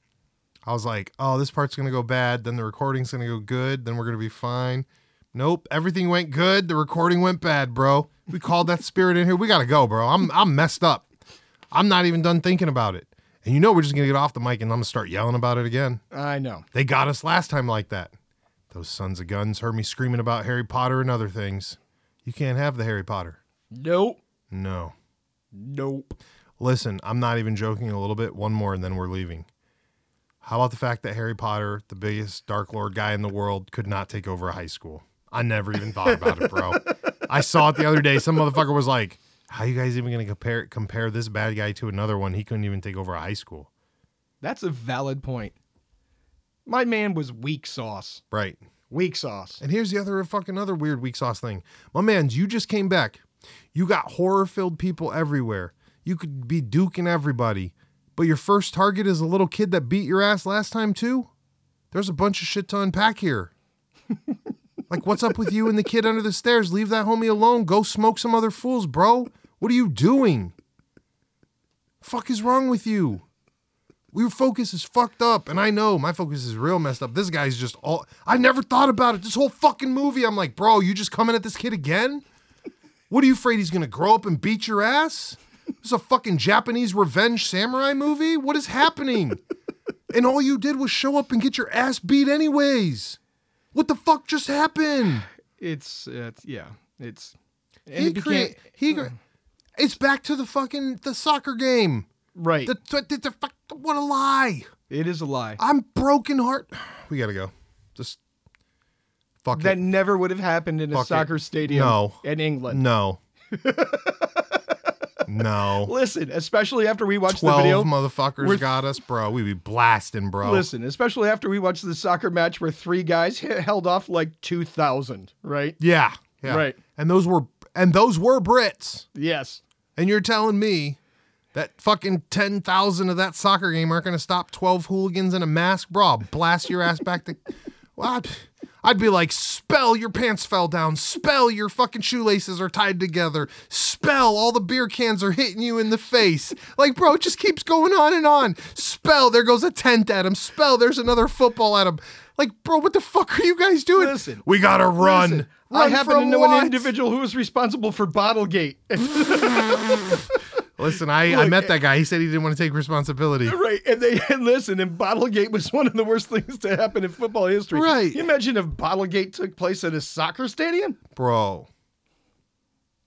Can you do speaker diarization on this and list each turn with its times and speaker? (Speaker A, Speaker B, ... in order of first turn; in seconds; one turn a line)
Speaker A: 0.7-11.1
Speaker A: 11.7-16.0
Speaker B: 16.1-16.6
Speaker A: 16.7-18.1
Speaker A: 18.7-23.4
Speaker B: 23.7-24.2
Speaker A: 24.5-24.9
Speaker B: 25.5-26.2
Speaker A: 26.6-29.5
Speaker A: 30.4-43.7
Speaker B: 36.0-36.8
Speaker B: 44.4-45.5
Speaker B: 46.6-48.2
Speaker A: 48.3-48.6
Speaker B: 48.9-49.6
Speaker A: 49.6-53.2
Speaker A: 53.7-61.3
Speaker A: 61.9-63.5
Speaker A: 64.9-70.5
Speaker A: 72.0-73.2
Speaker A: 74.1-82.2
Speaker A: 83.1-89.4
Speaker A: 90.1-93.2
Speaker A: 93.7-95.3
Speaker B: 95.6-97.3
Speaker B: 97.9-99.1
Speaker A: 97.9-99.1
Speaker A: 99.8-102.1
Speaker B: 102.3-102.7
Speaker A: 102.6-104.7
Speaker B: 104.9-105.6
Speaker A: 105.6-108.2
Speaker A: 109.4-109.8
Speaker B: 109.5-112.8
Speaker A: 110.9-113.2
Speaker B: 113.5-114.8
Speaker A: 115.3-115.9
Speaker B: 115.8-118.7
Speaker A: 117.3-120.7
Speaker B: 120.4-125.8
Speaker A: 125.8-129.1
Speaker B: 126.4-126.8
Speaker B: 129.1-129.6
Speaker A: 129.9-131.0
Speaker A: 131.5-137.4
Speaker A: 137.9-156.9
Speaker B: 153.9-154.4
Speaker B: 155.0-160.4
Speaker A: 160.8-163.6
Speaker B: 161.2-161.7
Speaker B: 163.4-171.0
Speaker A: 167.7-168.2
Speaker A: 171.1-171.7